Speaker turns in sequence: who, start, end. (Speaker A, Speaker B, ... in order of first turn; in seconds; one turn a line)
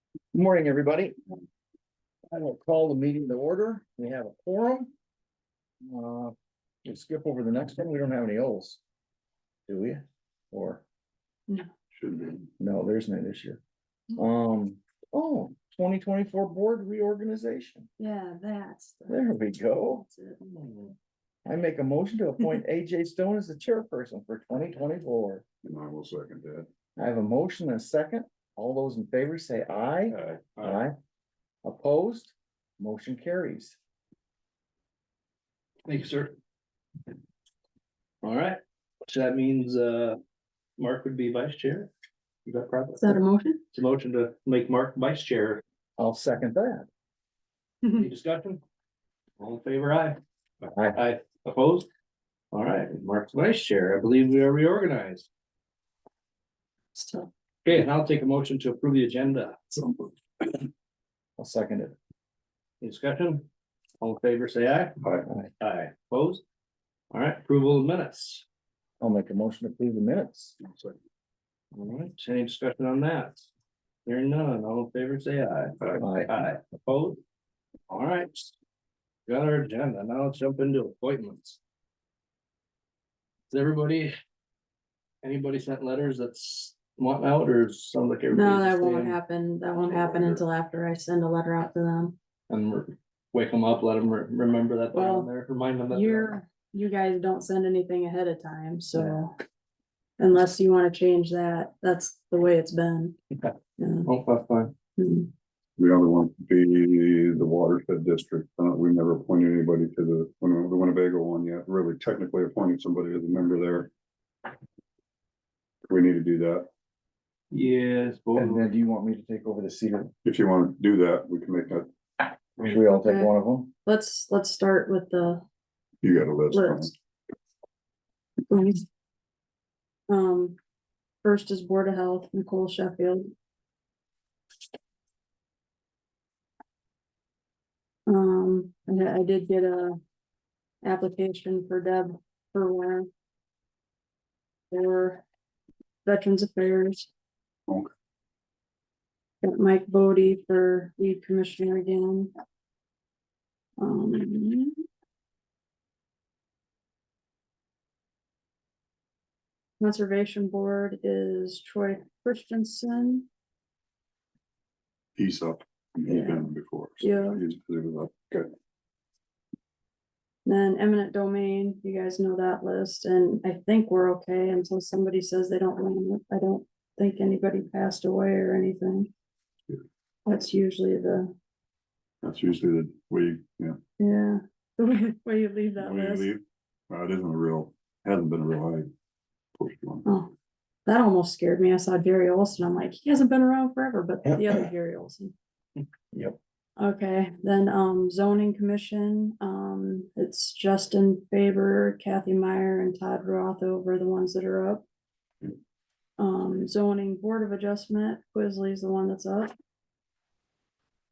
Speaker A: 0.3-1.1
Speaker A: 2.3-4.9
Speaker A: 5.8-6.3
Speaker A: 6.8-8.8
Speaker A: 9.7-10.8
Speaker B: 11.9-12.5
Speaker A: 12.6-13.6
Speaker A: 14.2-17.9
Speaker C: 18.0-20.4
Speaker A: 19.1-20.1
Speaker D: 20.4-20.9
Speaker A: 21.4-25.4
Speaker B: 25.6-26.7
Speaker A: 27.0-30.9
Speaker B: 30.1-30.4
Speaker D: 30.6-30.8
Speaker A: 31.6-33.8
Speaker D: 35.8-36.3
Speaker D: 38.2-40.2
Speaker D: 40.8-41.9
Speaker D: 42.5-43.2
Speaker C: 43.0-43.6
Speaker D: 43.7-45.6
Speaker A: 46.0-46.9
Speaker D: 47.9-48.6
Speaker D: 49.4-50.2
Speaker A: 50.6-51.0
Speaker D: 50.9-51.9
Speaker D: 52.5-55.3
Speaker C: 57.0-57.3
Speaker D: 57.6-59.6
Speaker A: 61.4-61.9
Speaker D: 62.8-63.5
Speaker D: 64.0-65.0
Speaker B: 65.0-65.3
Speaker D: 65.6-66.4
Speaker D: 67.1-68.4
Speaker A: 69.0-70.5
Speaker B: 70.6-71.0
Speaker D: 71.7-73.5
Speaker D: 74.0-77.2
Speaker A: 76.0-76.3
Speaker D: 77.9-78.5
Speaker D: 79.3-81.6
Speaker D: 83.5-84.1
Speaker D: 85.2-89.2
Speaker C: 88.3-92.2
Speaker B: 89.8-90.4
Speaker D: 92.5-96.3
Speaker C: 94.9-95.3
Speaker C: 95.9-99.3
Speaker C: 100.2-103.2
Speaker C: 103.8-104.1
Speaker D: 104.0-104.7
Speaker C: 105.0-105.3
Speaker B: 105.8-113.9
Speaker B: 115.9-116.7
Speaker D: 117.5-118.7
Speaker A: 118.3-120.1
Speaker B: 120.2-121.9
Speaker A: 122.6-123.7
Speaker C: 122.7-123.3
Speaker C: 123.8-125.4
Speaker B: 126.0-126.9
Speaker C: 126.5-126.9
Speaker C: 128.5-128.8
Speaker C: 130.1-130.6
Speaker C: 131.2-133.3
Speaker C: 138.1-140.0
Speaker C: 140.8-143.1
Speaker C: 144.7-145.2
Speaker C: 146.0-147.1
Speaker C: 149.4-152.3
Speaker C: 153.8-154.8
Speaker C: 159.8-163.3
Speaker B: 165.2-168.5
Speaker C: 166.1-166.4
Speaker C: 167.0-167.4
Speaker C: 170.4-179.1
Speaker C: 180.2-181.3
Speaker B: 182.2-183.8
Speaker C: 184.0-186.3
Speaker B: 185.8-188.9
Speaker B: 189.6-190.0
Speaker C: 190.1-190.3
Speaker C: 190.8-195.3
Speaker C: 196.8-204.8
Speaker C: 206.2-209.5